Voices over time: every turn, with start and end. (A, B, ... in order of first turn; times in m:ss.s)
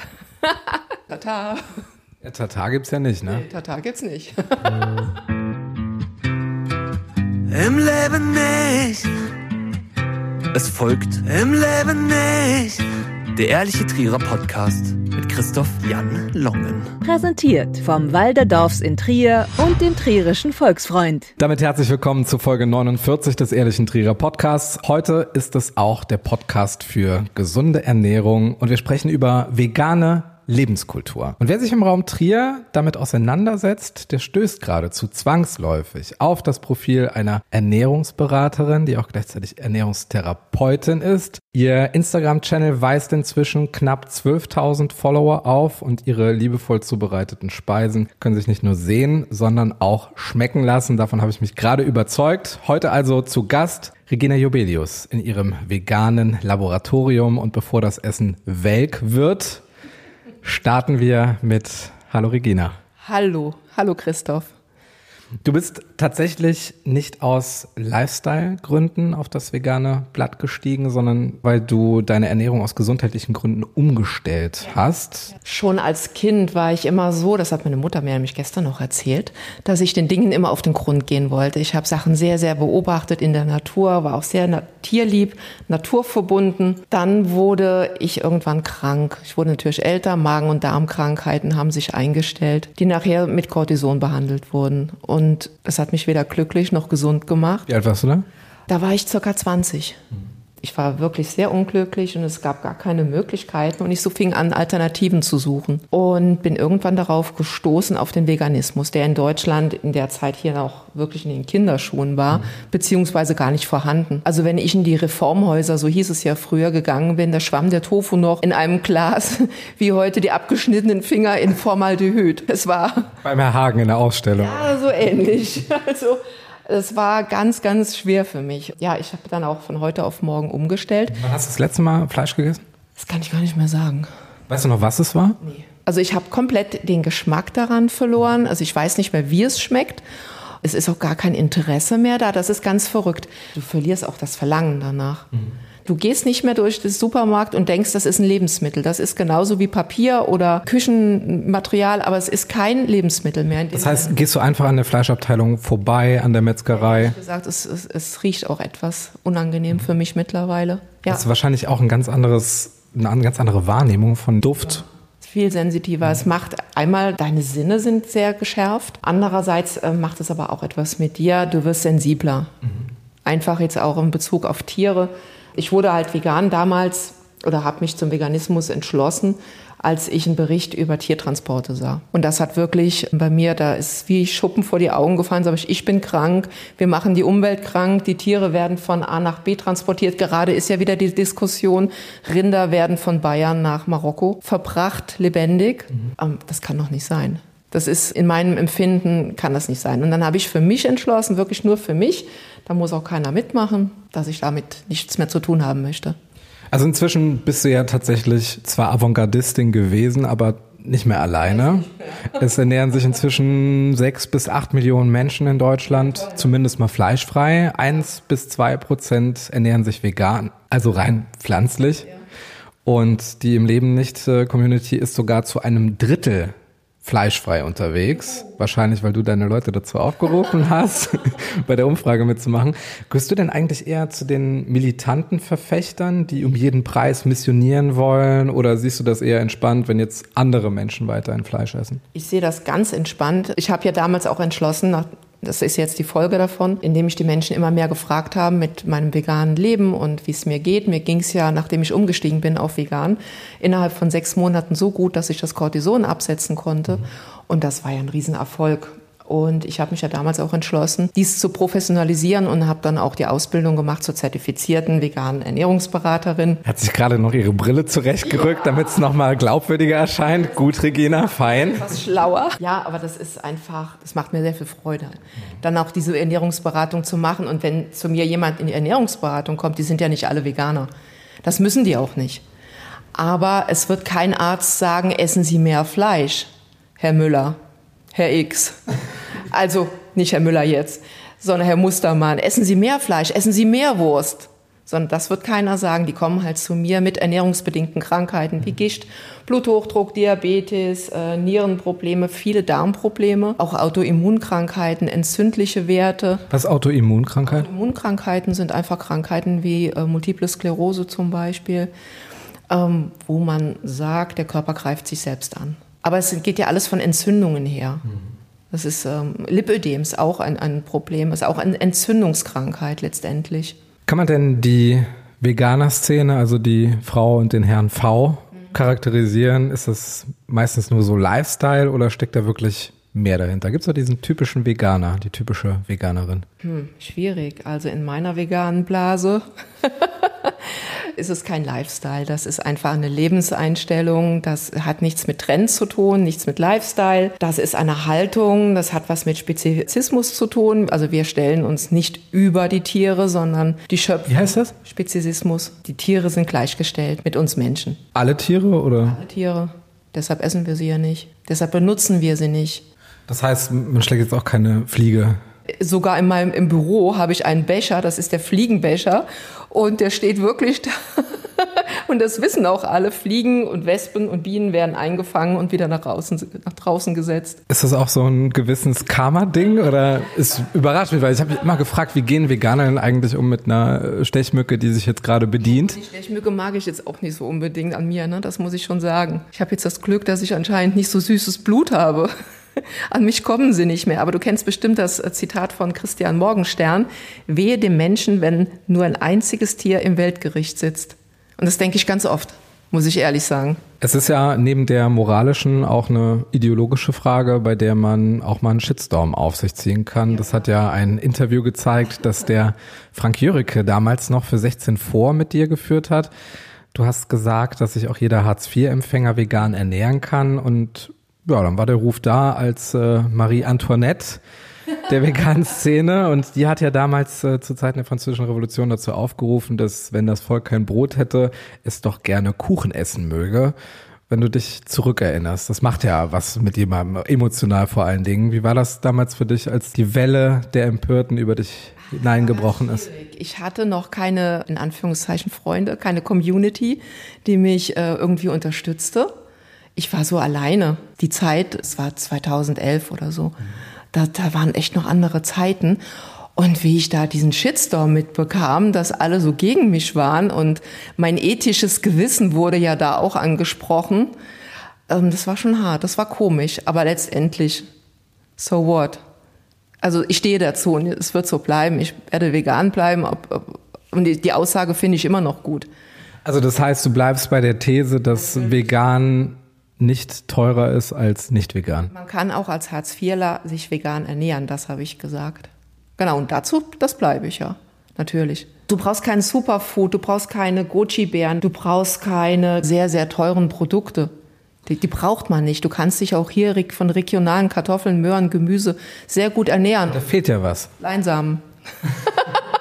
0:00.4-0:01.6 A
0:02.2-0:03.4 B
0:03.2-0:04.8 A
0:07.5-0:09.2 C
0:10.5-0:17.0 C
0:17.0-0:21.3 D
0:21.4-0:59.6 B
1:00.4-1:02.8 B
1:03.0-1:04.5 A
1:05.4-1:15.4 B
1:15.4-1:37.7 A
1:37.7-1:38.3 B
1:38.7-1:40.0 A
1:40.6-2:03.2 A
2:03.2-2:04.7 B
2:04.4-2:11.2 A
2:11.1-2:12.6 B
2:13.0-2:14.1 A
2:14.5-2:15.4 B
2:15.4-2:20.0 A
2:20.6-2:25.3 A
2:25.8-2:34.2 A
2:33.7-2:37.2 B
2:36.7-2:41.2 A
2:41.1-2:44.9 B
2:45.2-2:52.5 A
2:53.2-3:26.2 A
3:26.7-3:42.1 B
3:42.8-4:02.0 B
4:02.1-4:26.6 A
4:26.6-4:31.9 B
4:31.4-4:40.9 A
4:41.4-4:42.4 A
4:43.1-4:47.6 A
4:48.1-4:48.8 A
4:49.5-5:06.5 A
5:06.5-5:07.7 B
5:07.4-5:11.9 A
5:12.7-5:18.0 A
5:18.7-5:23.8 A
5:24.1-5:36.5 B
5:36.6-5:58.0 A
5:54.3-5:54.7 B
5:58.2-5:59.2 B
5:59.0-6:02.9 A
6:03.3-6:05.4 B
6:05.8-6:17.6 A
6:17.7-6:26.0 B
6:25.6-6:43.8 A
6:44.0-6:56.3 B
6:50.3-6:50.7 A
6:56.9-7:04.4 B
7:05.1-7:13.8 B
7:14.3-7:23.1 B
7:22.0-7:29.3 A
7:30.0-7:33.6 A
7:34.1-7:36.0 A
7:36.6-7:44.4 A
7:45.1-7:47.9 A
7:48.6-7:49.2 A
7:50.0-7:55.9 A
7:56.4-8:02.1 B
7:58.5-7:58.9 A
8:02.1-8:14.3 A
8:14.9-8:20.2 A
8:20.1-8:20.9 B
8:21.0-8:22.4 A